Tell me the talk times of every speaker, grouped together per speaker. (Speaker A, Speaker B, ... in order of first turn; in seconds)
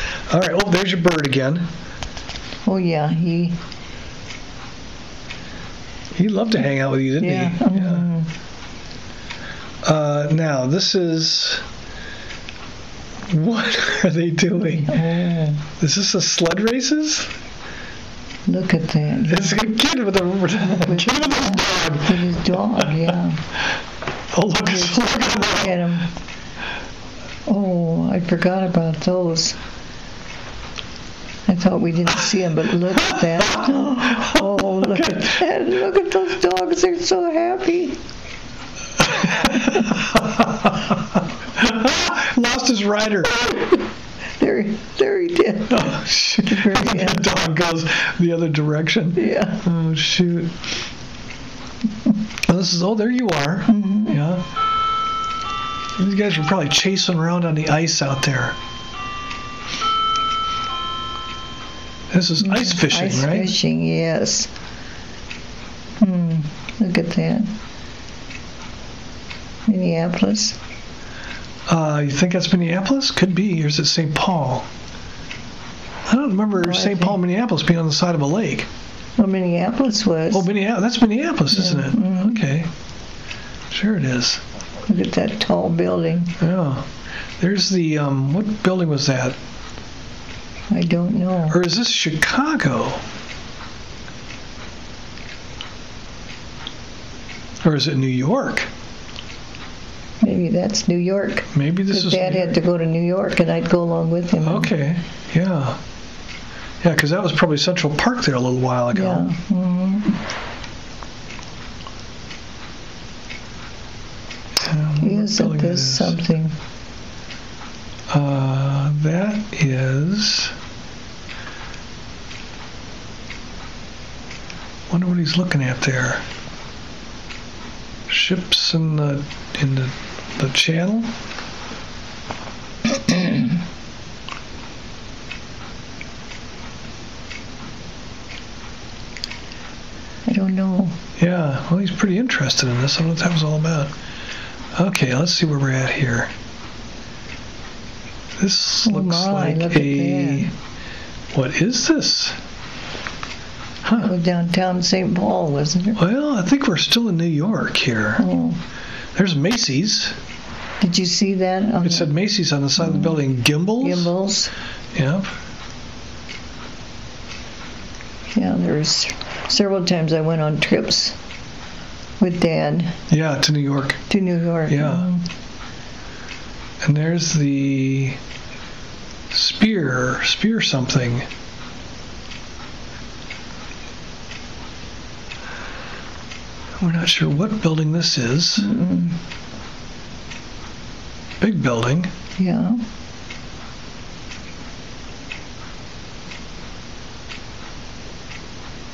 Speaker A: 0.3-1.7, 6.2-8.1, 9.8-11.7, 13.3-14.9, 15.8-17.3, 19.3-22.2, 24.3-25.7, 33.2-35.4, 39.0-40.9, 41.6-43.8, 45.7-50.5, 52.5-54.5, 56.0-58.5, 62.1-63.5, 71.7-74.7, 76.1-78.7, 80.3-82.7, 83.7-84.4, 86.4-86.9, 87.4-89.4, 91.5-93.0, 97.6-98.7, 101.5-102.6, 104.4-105.8, 106.8-109.2, 114.6-116.2, 118.1-120.5, 124.9-126.2, 128.1-131.1, 141.2-143.9, 144.8-146.3, 148.4-150.5, 151.3-152.4, 153.8-154.1, 155.9-158.2, 159.1-160.2, 161.8-164.1, 164.9-165.3, 173.1-174.0, 174.7-175.1, 176.8-178.2, 179.3-181.2, 186.8-188.7, 191.4-192.1
Speaker B: 2.7-3.6, 7.2-8.3, 14.6-15.7, 18.4-19.7, 20.6-23.4, 24.6-26.1, 27.5-29.6, 31.5-38.0, 44.4-45.9, 46.4-47.3, 49.2-49.6, 53.7-54.2, 62.4-64.5, 66.0-67.5, 69.7-70.6, 76.6-77.2, 79.2-80.5, 81.5-82.4, 84.9-86.3, 90.7-91.6, 100.2-104.7, 108.9-110.2, 115.0-116.6, 140.3-140.9, 148.8-150.5, 154.0-156.0, 158.2-158.6, 160.8-162.1, 162.8-163.2, 163.8-164.5, 168.3-171.2, 172.2-172.9, 174.1-175.2, 188.6-189.2, 192.4-192.8